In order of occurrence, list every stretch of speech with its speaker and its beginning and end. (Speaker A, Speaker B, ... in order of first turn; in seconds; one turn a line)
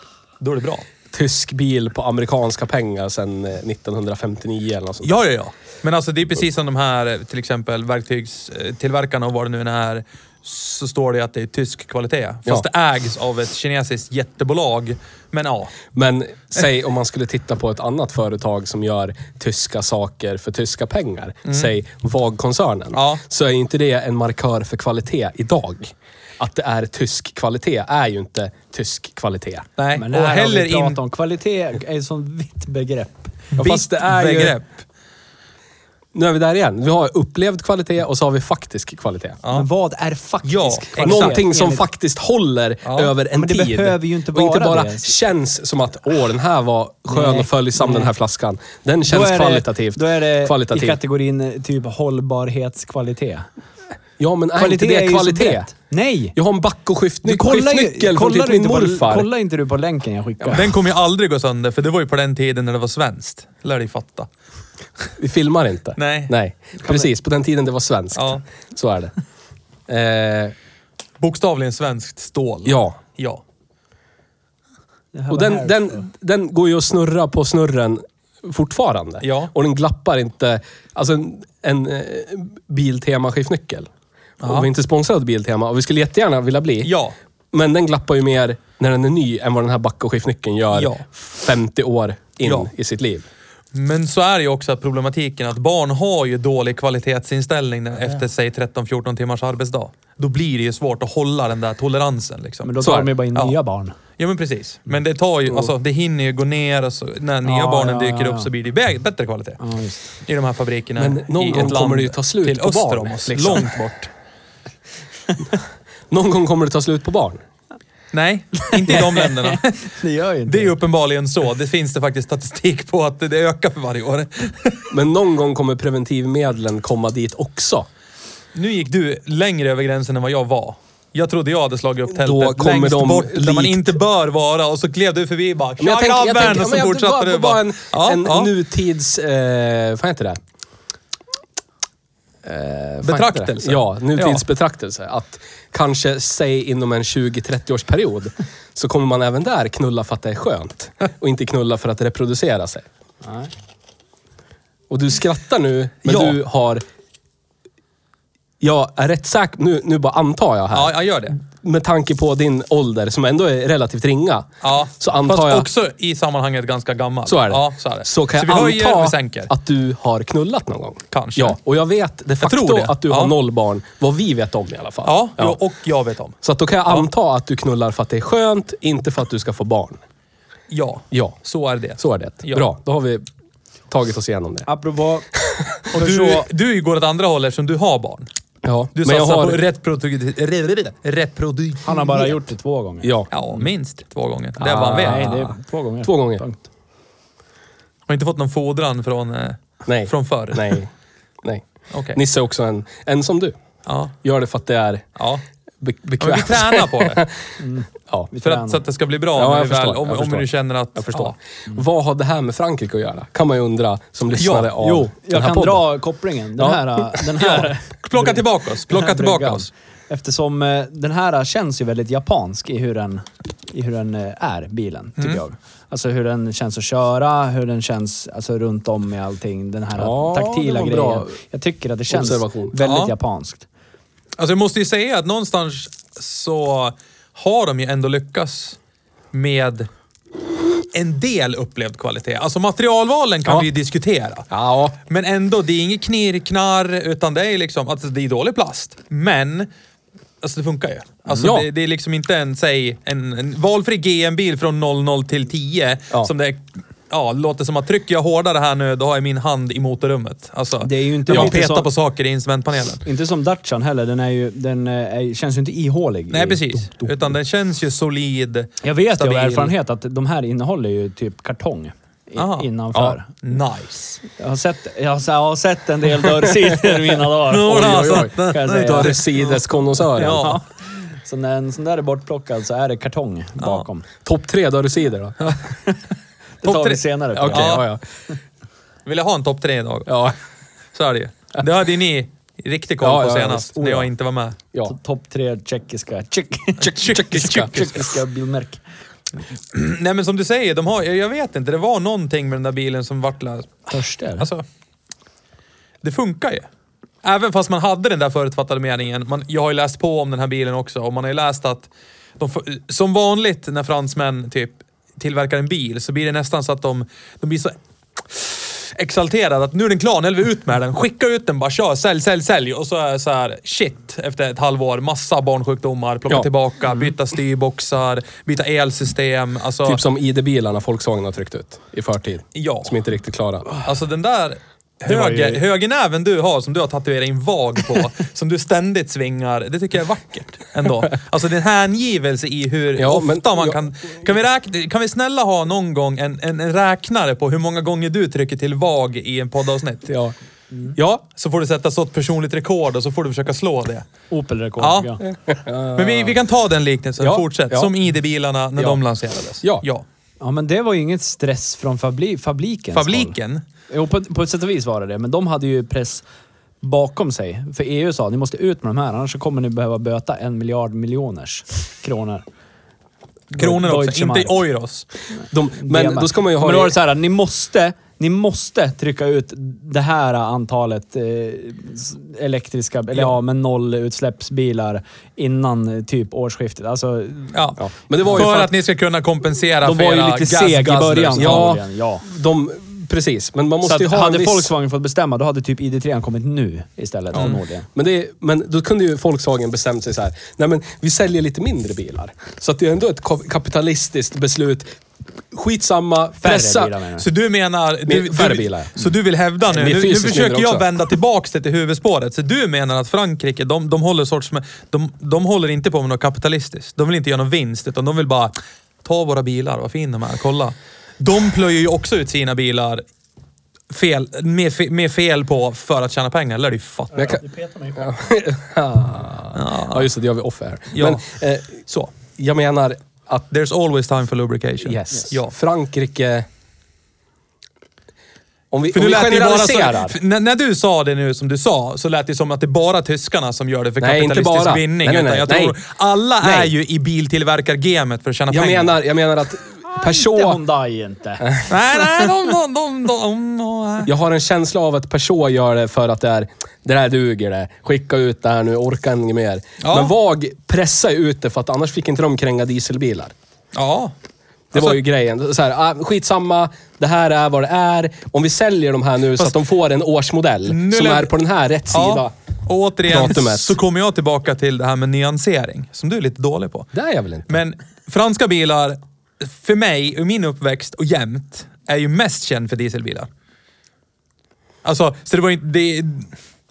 Speaker A: 0.4-0.9
Speaker B: 1.1-5.2
Speaker A: 5.0-15.8
Speaker B: 15.9-29.7
Speaker A: 21.5-21.7
Speaker A: 22.9-23.2
Speaker A: 29.8-31.0
Speaker C: 29.9-33.4
Speaker A: 33.5-34.7
Speaker B: 33.6-34.6
Speaker B: 36.1-39.4
Speaker A: 39.4-39.7
Speaker C: 39.5-41.8
Speaker A: 40.4-41.4
Speaker B: 41.0-51.0
Speaker A: 42.8-43.1
Speaker C: 43.3-45.1
Speaker C: 47.1-48.1
Speaker C: 49.0-53.5
Speaker B: 54.2-55.7
Speaker C: 54.6-56.4
Speaker B: 56.4-59.3
Speaker C: 57.2-60.7
Speaker A: 60.5-64.3
Speaker B: 65.2-69.1
Speaker A: 66.0-66.3
Speaker A: 68.2-68.4
Speaker B: 69.9-70.5
Speaker A: 71.2-73.4
Speaker B: 72.7-73.0
Speaker C: 75.1-76.0
Speaker B: 75.3-83.9
Speaker A: 79.2-79.5
Speaker A: 84.4-84.7
Speaker B: 84.4-86.9
Speaker A: 86.8-87.2
Speaker B: 87.5-93.3
Speaker A: 90.7-91.0
Speaker A: 92.4-92.7
Speaker A: 93.7-102.7
Speaker C: 102.7-104.0
Speaker B: 102.8-103.1
Speaker A: 104.2-109.6
Speaker C: 107.4-108.5
Speaker C: 109.6-110.1
Speaker A: 110.2-114.1
Speaker B: 111.0-113.8
Speaker B: 116.1-117.4
Speaker A: 118.1-119.8
Speaker C: 118.7-120.8
Speaker A: 120.5-124.9
Speaker B: 124.9-127.9
Speaker A: 128.6-138.5
Speaker B: 132.1-133.9
Speaker B: 135.8-140.4
Speaker B: 142.4-152.9
Speaker A: 143.0-144.4
Speaker C: 153.2-153.5
Speaker B: 154.9-156.8
Speaker A: 156.1-156.4
Speaker B: 158.6-160.9
Speaker A: 160.7-161.4
Speaker B: 161.4-165.7
Speaker A: 164.6-169.5
Speaker B: 167.3-175.6
Speaker A: 171.1-171.6
Speaker A: 172.4-173.3
Speaker A: 175.1-177.1
Speaker B: 176.4-180.0
Speaker A: 180.7-182.7
Speaker B: 182.0-183.3
Speaker B: 183.9-184.7
Speaker C: 184.7-185.3
Speaker B: 185.4-185.8
Speaker A: 185.9-188.3
Speaker C: 185.9-186.5
Speaker B: 188.6-189.6
Speaker A: 189.0-192.2
Speaker C: 191.8-193.6
Speaker B: 193.0-193.3
Speaker A: 193.3-195.3
Speaker B: 194.6-196.4
Speaker C: 194.7-196.6
Speaker A: 198.1-200.8
Speaker B: 199.8-200.9
Speaker B: 201.4-203.6
Speaker A: 201.9-202.2
Speaker A: 203.9-204.1
Speaker B: 204.2-205.1
Speaker A: 205.2-205.4
Speaker B: 205.8-207.3
Speaker A: 206.2-207.2
Speaker C: 207.6-208.8
Speaker A: 208.4-211.4
Speaker B: 209.3-215.8
Speaker A: 214.3-214.9
Speaker C: 214.8-233.7
Speaker B: 216.6-217.2
Speaker A: 217.4-219.7
Speaker B: 229.9-231.3
Speaker B: 232.1-232.7
Speaker A: 232.8-233.1
Speaker A: 234.4-238.8
Speaker A: 239.3-239.9
Speaker A: 240.9-244.5
Speaker B: 244.5-245.0
Speaker A: 245.1-249.7
Speaker A: 250.4-263.0
Speaker B: 251.4-251.7
Speaker C: 260.8-261.9
Speaker B: 261.3-261.6
Speaker C: 263.0-267.3
Speaker A: 266.3-269.7
Speaker C: 268.8-273.3
Speaker A: 272.4-274.2
Speaker C: 274.4-279.4
Speaker A: 277.5-279.3
Speaker B: 277.7-280.5
Speaker C: 280.2-284.1
Speaker A: 280.2-280.6
Speaker A: 283.6-283.9
Speaker B: 284.2-285.5
Speaker C: 286.6-287.8
Speaker A: 286.6-287.9
Speaker B: 287.4-288.0
Speaker A: 289.1-290.3
Speaker B: 290.1-290.4
Speaker A: 290.9-294.6
Speaker B: 293.0-294.1
Speaker C: 294.9-298.8
Speaker A: 296.8-297.9
Speaker B: 297.0-297.9
Speaker A: 299.7-304.6
Speaker C: 303.9-304.5
Speaker A: 306.0-306.7
Speaker A: 307.2-317.8
Speaker A: 318.3-330.0
Speaker B: 329.9-333.7
Speaker A: 332.6-332.9
Speaker A: 333.8-350.1
Speaker B: 343.0-343.8
Speaker B: 350.1-350.3
Speaker B: 350.9-351.2
Speaker A: 351.3-354.1
Speaker C: 354.3-355.2
Speaker A: 354.8-355.1
Speaker B: 355.3-356.4
Speaker A: 355.9-360.1
Speaker B: 357.2-357.9
Speaker C: 360.4-363.3
Speaker A: 362.9-363.6
Speaker C: 363.9-366.2
Speaker C: 366.8-372.4
Speaker C: 373.5-374.6
Speaker A: 373.6-375.1
Speaker B: 375.5-376.9
Speaker C: 375.8-387.6
Speaker A: 387.5-391.7
Speaker B: 387.8-388.7
Speaker C: 389.8-392.3
Speaker B: 391.4-394.7
Speaker C: 393.8-397.9
Speaker B: 397.9-405.0
Speaker B: 405.5-406.9
Speaker C: 406.4-407.3
Speaker A: 407.2-423.0
Speaker B: 408.1-409.0
Speaker B: 409.7-410.9
Speaker A: 423.9-427.2
Speaker C: 427.1-428.0
Speaker B: 427.1-427.4
Speaker B: 427.9-431.8
Speaker A: 429.6-430.1
Speaker A: 430.9-431.2
Speaker A: 431.9-432.1
Speaker B: 432.3-433.5
Speaker A: 433.5-435.5
Speaker B: 434.8-436.5
Speaker B: 438.7-440.2
Speaker A: 438.9-448.9
Speaker B: 444.0-445.8
Speaker B: 446.4-446.7
Speaker B: 448.5-450.6
Speaker C: 449.9-451.6
Speaker B: 451.4-451.7
Speaker A: 451.7-454.1
Speaker B: 454.1-463.3
Speaker A: 459.8-460.1
Speaker A: 463.7-464.1
Speaker A: 464.7-465.0
Speaker B: 464.7-472.3
Speaker A: 470.7-471.3
Speaker A: 471.9-476.9
Speaker B: 473.1-473.8
Speaker B: 476.9-477.6
Speaker A: 477.5-483.3
Speaker A: 484.8-486.3